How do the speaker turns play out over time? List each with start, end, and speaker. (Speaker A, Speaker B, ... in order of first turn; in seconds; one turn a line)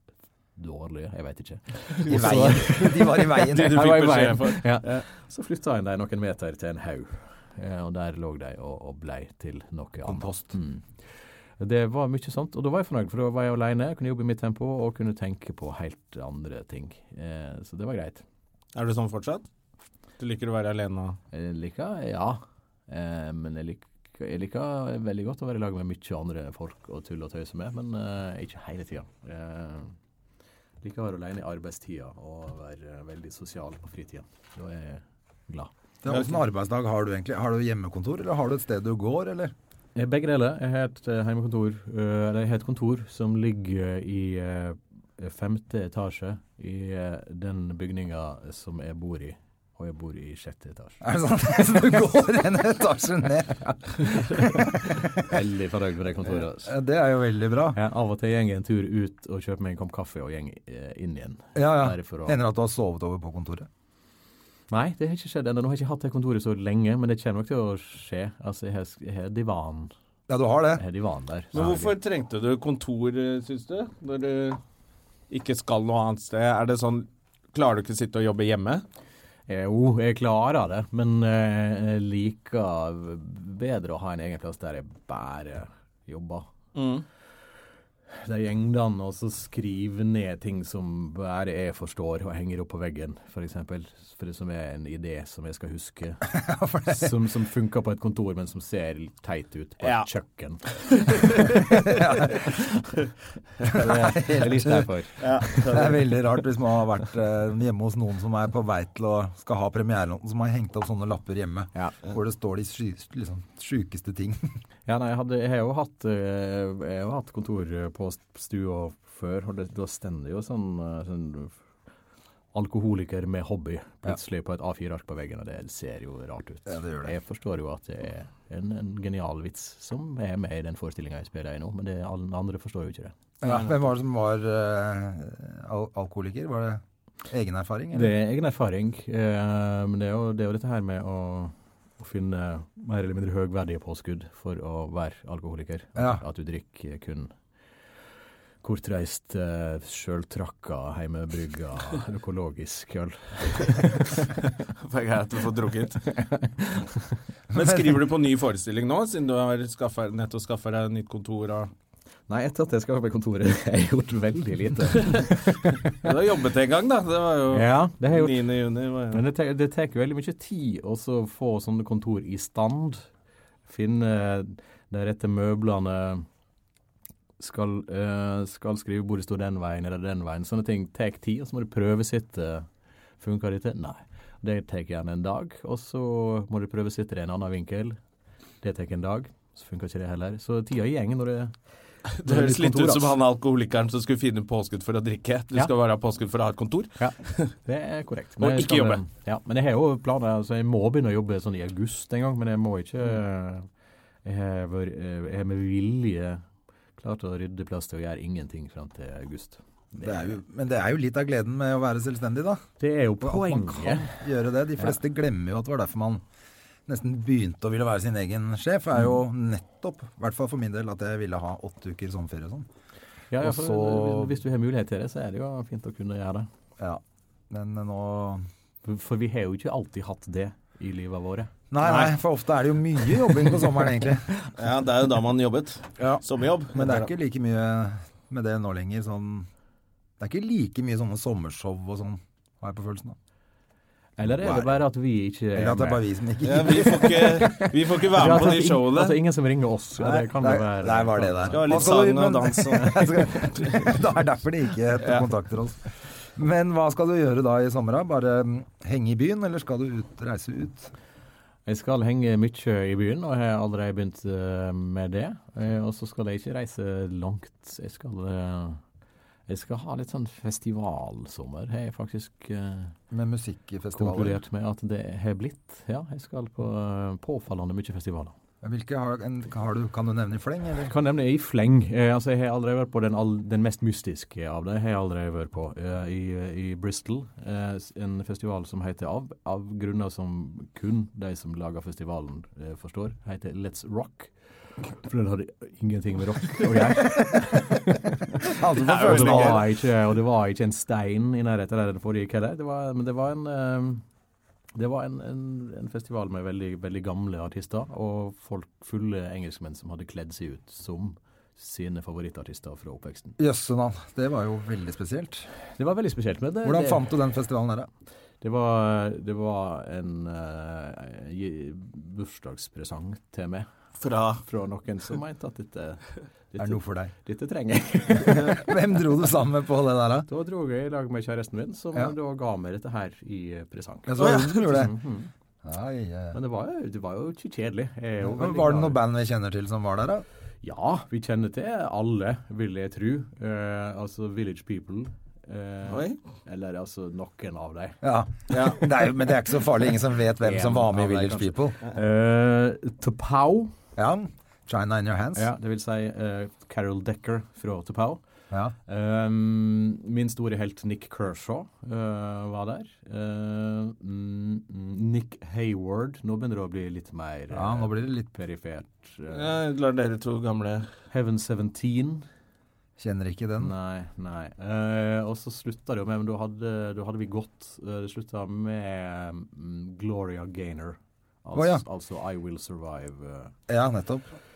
Speaker A: 0.6-18.2
Speaker B: 2.0-2.8
Speaker C: 2.0-3.9
Speaker B: 3.3-5.0
Speaker C: 10.1-10.5
Speaker B: 18.7-19.5
Speaker B: 20.2-21.2
Speaker A: 21.3-29.9
Speaker A: 30.8-35.7
Speaker C: 36.0-39.5
Speaker B: 36.1-36.4
Speaker A: 39.9-51.0
Speaker C: 51.0-55.3
Speaker A: 55.0-56.7
Speaker C: 56.2-57.8
Speaker A: 57.7-62.4
Speaker C: 61.5-63.7
Speaker A: 64.7-69.9
Speaker C: 70.3-70.8
Speaker A: 70.8-71.9
Speaker B: 71.5-74.6
Speaker B: 75.3-78.8
Speaker A: 79.5-86.5
Speaker B: 86.7-87.0
Speaker A: 88.2-96.3
Speaker C: 96.3-97.2
Speaker A: 96.8-101.5
Speaker B: 99.8-100.1
Speaker B: 101.1-101.6
Speaker C: 101.7-102.5
Speaker C: 103.7-104.9
Speaker A: 103.7-105.8
Speaker B: 105.2-106.1
Speaker C: 105.5-114.5
Speaker A: 114.9-121.6
Speaker A: 122.5-133.1
Speaker C: 126.7-127.1
Speaker C: 133.4-138.1
Speaker A: 137.9-147.3
Speaker C: 145.9-146.2
Speaker A: 148.6-154.3
Speaker B: 154.8-156.0
Speaker A: 156.1-157.0
Speaker C: 157.5-157.8
Speaker B: 157.5-161.7
Speaker A: 162.3-165.9
Speaker B: 165.9-169.2
Speaker A: 167.5-168.4
Speaker A: 169.1-173.1
Speaker A: 173.7-176.2
Speaker A: 177.4-182.7
Speaker A: 183.2-188.0
Speaker A: 188.6-191.6
Speaker B: 192.1-197.5
Speaker A: 192.2-193.2
Speaker A: 197.0-203.7
Speaker B: 198.4-199.0
Speaker A: 204.2-206.4
Speaker A: 207.0-210.4
Speaker C: 210.0-212.6
Speaker A: 212.8-214.2
Speaker C: 213.2-216.2
Speaker C: 216.9-222.7
Speaker A: 223.3-226.5
Speaker C: 223.4-224.3
Speaker C: 226.8-228.4
Speaker A: 228.8-231.5
Speaker C: 231.7-234.3
Speaker B: 231.8-232.1
Speaker B: 234.6-237.1
Speaker C: 236.0-239.5
Speaker C: 240.2-243.2
Speaker A: 244.2-246.0
Speaker C: 244.2-244.7
Speaker C: 245.5-247.7
Speaker B: 246.4-249.2
Speaker A: 248.1-252.0
Speaker C: 250.0-260.9
Speaker B: 251.5-253.9
Speaker A: 261.6-268.8
Speaker A: 269.5-272.9
Speaker C: 273.1-274.4
Speaker A: 273.9-278.3
Speaker C: 278.6-280.9
Speaker A: 280.9-298.4
Speaker C: 298.4-299.6
Speaker B: 298.8-299.6
Speaker A: 299.0-304.0
Speaker A: 304.7-313.4
Speaker C: 313.4-315.5
Speaker A: 315.8-317.1
Speaker C: 316.6-317.9
Speaker A: 318.4-323.7
Speaker B: 324.0-324.4
Speaker A: 324.4-328.7
Speaker C: 326.6-327.1
Speaker C: 328.1-330.3
Speaker A: 330.3-335.3
Speaker C: 334.1-334.9
Speaker B: 334.2-334.8
Speaker C: 335.6-336.4
Speaker A: 336.3-339.0
Speaker C: 338.2-340.2
Speaker A: 340.6-348.0
Speaker B: 345.9-346.2
Speaker C: 348.0-351.8
Speaker B: 348.5-348.8
Speaker A: 350.4-353.7
Speaker C: 353.9-355.5
Speaker A: 355.3-358.2
Speaker A: 358.9-369.5
Speaker C: 367.5-368.3
Speaker B: 369.3-370.9
Speaker A: 371.1-372.2
Speaker C: 373.0-373.7
Speaker A: 373.6-383.5
Speaker C: 381.5-381.8
Speaker C: 383.7-384.2